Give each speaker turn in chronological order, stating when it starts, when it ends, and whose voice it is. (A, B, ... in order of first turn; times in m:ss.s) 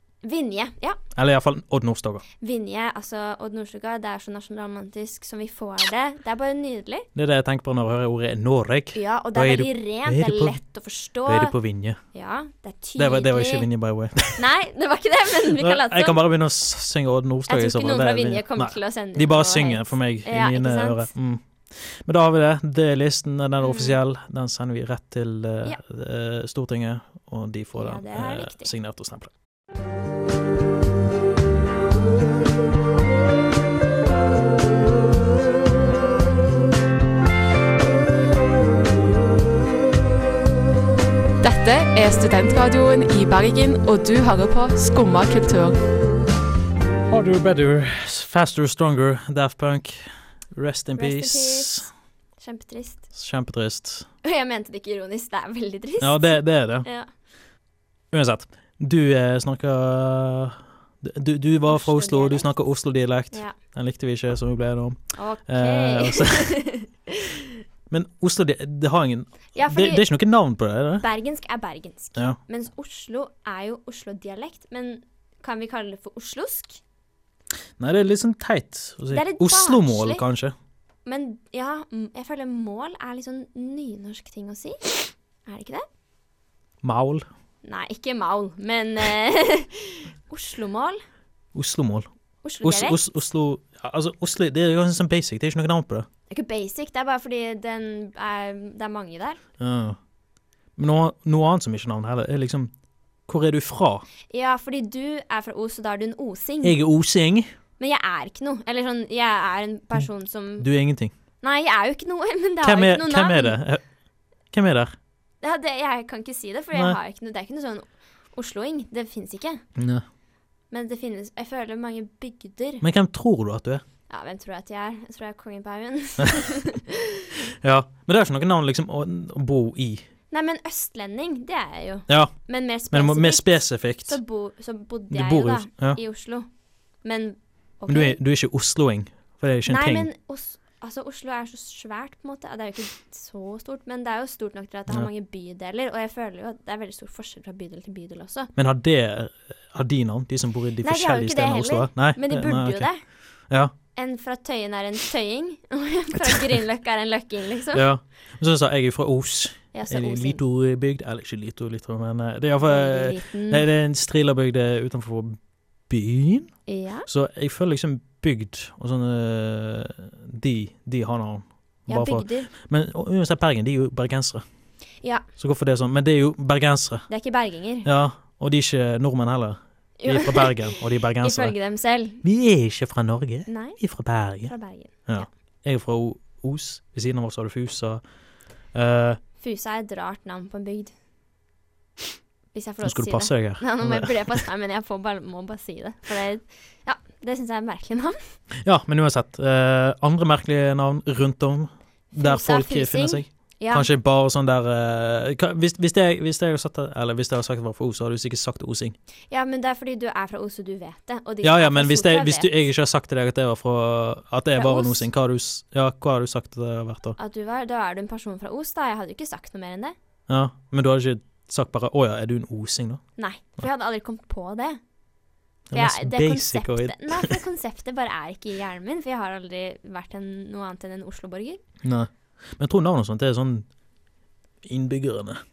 0:00.2-0:01.0 A
0:01.1-0:02.2 B
0:02.4-0:07.1 A
0:07.1-0:10.6 B
0:08.9-0:11.5 A
0:11.2-0:12.0 B
0:12.1-0:13.7 A
0:13.0-0:14.4 B
0:14.4-0:16.2 A
0:15.6-0:29.3 B
0:17.5-0:21.1 A
0:23.6-0:24.0 A
0:27.7-0:28.7 A
0:41.4-0:45.8 C
0:47.1-0:51.9 B
0:51.0-0:51.9 A
0:52.4-0:53.0 A
0:53.1-0:54.1 B
0:54.2-0:57.1 A
0:56.0-0:56.9 B
0:58.1-1:06.6 B
1:01.7-1:02.6 A
1:05.1-1:07.4 A
1:07.9-1:11.0 B
1:09.5-1:10.0 A
1:11.0-1:16.8 A
1:17.8-1:20.5 B
1:19.1-1:20.2 A
1:21.0-1:25.8 A
1:26.8-1:27.2 B
1:27.6-1:31.0 A
1:31.5-1:32.1 B
1:32.4-1:33.0 A
1:32.6-1:36.1 B
1:36.3-1:39.4 A
1:39.6-1:40.0 B
1:40.8-1:42.7 B
1:43.3-1:44.0 B
1:44.3-1:46.8 A
1:46.6-1:47.5 B
1:47.8-1:50.7 A
1:50.6-1:51.1 B
1:51.4-1:53.6 A
1:52.6-1:53.8 B
1:54.5-1:54.9 B
1:55.4-1:59.6 A
1:59.8-2:00.0 B
2:00.7-2:02.8 A
2:02.8-2:03.8 B
2:04.1-2:07.3 A
2:07.6-2:10.0 B
2:10.3-2:16.5 A
2:12.1-2:12.3 B
2:12.9-2:14.2 B
2:15.1-2:16.0 B
2:17.0-2:18.2 A
2:17.9-2:20.1 B
2:19.7-2:28.5 A
2:28.6-2:32.9 B
2:30.8-2:33.0 A
2:34.0-2:37.9 A
2:37.7-2:45.4 B
2:39.7-2:40.4 A
2:42.7-2:43.6 A
2:45.9-2:46.5 B
2:46.7-2:47.1 A
2:47.1-2:54.4 B
2:51.9-2:52.5 A
2:55.0-2:55.3 A
2:55.4-2:57.1 B
2:57.1-2:57.9 A
2:57.8-3:01.5 B
3:00.0-3:02.2 A
3:02.2-3:04.5 B
3:03.5-3:03.8 A
3:04.5-3:05.3 A
3:05.1-3:08.0 B
3:08.7-3:09.2 B
3:09.4-3:10.9 A
3:12.5-3:18.2 A
3:12.8-3:14.4 B
3:18.6-3:29.0 B
3:22.1-3:23.9 A
3:29.3-3:32.5 A
3:31.4-3:37.2 B
3:34.6-3:35.0 A
3:37.2-3:39.9 A
3:40.3-3:43.0 B
3:43.2-3:44.8 A
3:45.7-3:47.4 B
3:45.7-3:51.6 A
3:51.8-3:53.6 B
3:54.6-3:55.4 B